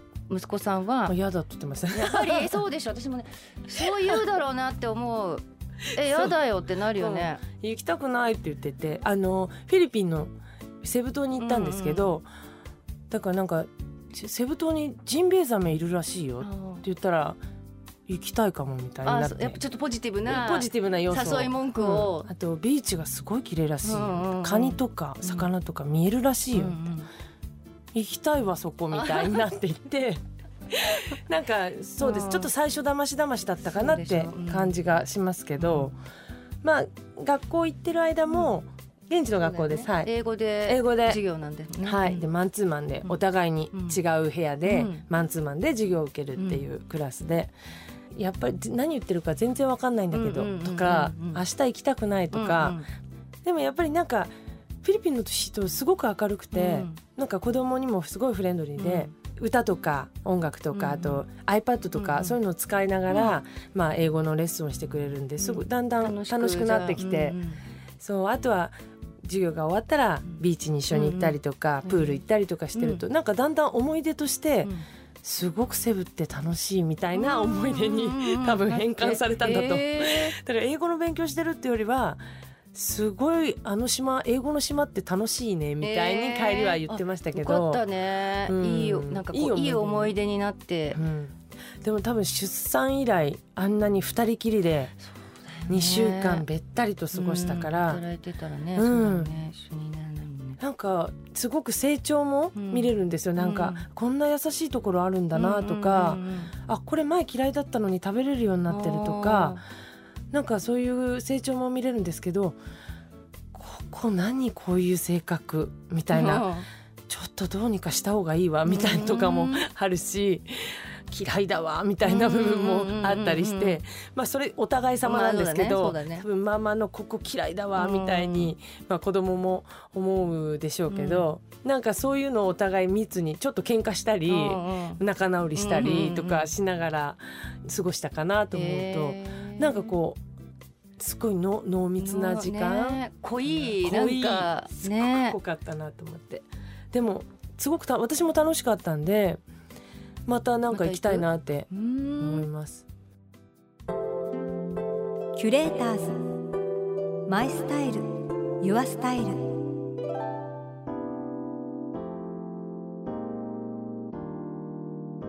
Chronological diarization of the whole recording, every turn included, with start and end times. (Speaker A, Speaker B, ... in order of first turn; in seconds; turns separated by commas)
Speaker A: 0.3-1.2, Speaker B: 1.1-2.6, Speaker A: 1.9-7.4, Speaker B: 6.0-6.3, Speaker B: 7.0-12.3, Speaker A: 11.4-12.2, Speaker B: 13.1-17.4, Speaker A: 16.4-16.8, Speaker B: 18.1-19.6, Speaker A: 19.1-22.3, Speaker B: 20.3-26.8, Speaker A: 23.8-25.5, Speaker A: 26.5-27.1, Speaker B: 27.9-36.0, Speaker A: 28.9-29.4, Speaker A: 32.0-32.5, Speaker A: 33.6-34.8, Speaker A: 35.6-35.9, Speaker B: 36.6-40.1, Speaker A: 39.4-42.3, Speaker B: 40.7-41.2, Speaker B: 41.8-47.5, Speaker A: 43.7-44.0, Speaker A: 44.6-45.0, Speaker A: 46.4-46.6, Speaker B: 48.1-52.8, Speaker A: 50.1-51.4, Speaker A: 52.3-52.9, Speaker B: 53.5-54.3, Speaker B: 54.8-67.4, Speaker A: 56.5-57.0, Speaker A: 58.8-59.1, Speaker A: 60.7-61.2, Speaker A: 62.0-62.4, Speaker A: 63.1-63.4, Speaker A: 65.4-67.6, Speaker B: 68.0-74.7, Speaker A: 70.9-72.2, Speaker A: 72.8-73.0, Speaker B: 75.2-82.2, Speaker A: 77.1-80.4, Speaker B: 82.7-87.9, Speaker A: 85.8-91.0, Speaker B: 88.5-90.2, Speaker B: 90.9-94.9, Speaker A: 95.5-96.5, Speaker B: 95.7-98.0, Speaker A: 97.1-100.6, Speaker B: 98.8-99.3, Speaker B: 100.6-109.6, Speaker A: 102.6-103.9, Speaker A: 105.3-106.5, Speaker A: 108.7-109.6, Speaker B: 110.3-112.6, Speaker B: 113.5-116.5, Speaker A: 116.1-116.7, Speaker B: 117.1-140.2, Speaker A: 118.7-119.6, Speaker A: 122.0-123.8, Speaker A: 125.0-126.3, Speaker A: 127.8-128.5, Speaker A: 130.9-131.3, Speaker A: 134.3-135.0, Speaker A: 135.6-136.5, Speaker A: 138.5-140.0, Speaker B: 141.0-149.4, Speaker A: 142.0-145.4, Speaker B: 150.3-151.7, Speaker A: 150.7-152.5, Speaker B: 152.2-152.9, Speaker C: 155.4-156.2, Speaker C: 157.3-158.1, Speaker C: 158.6-159.4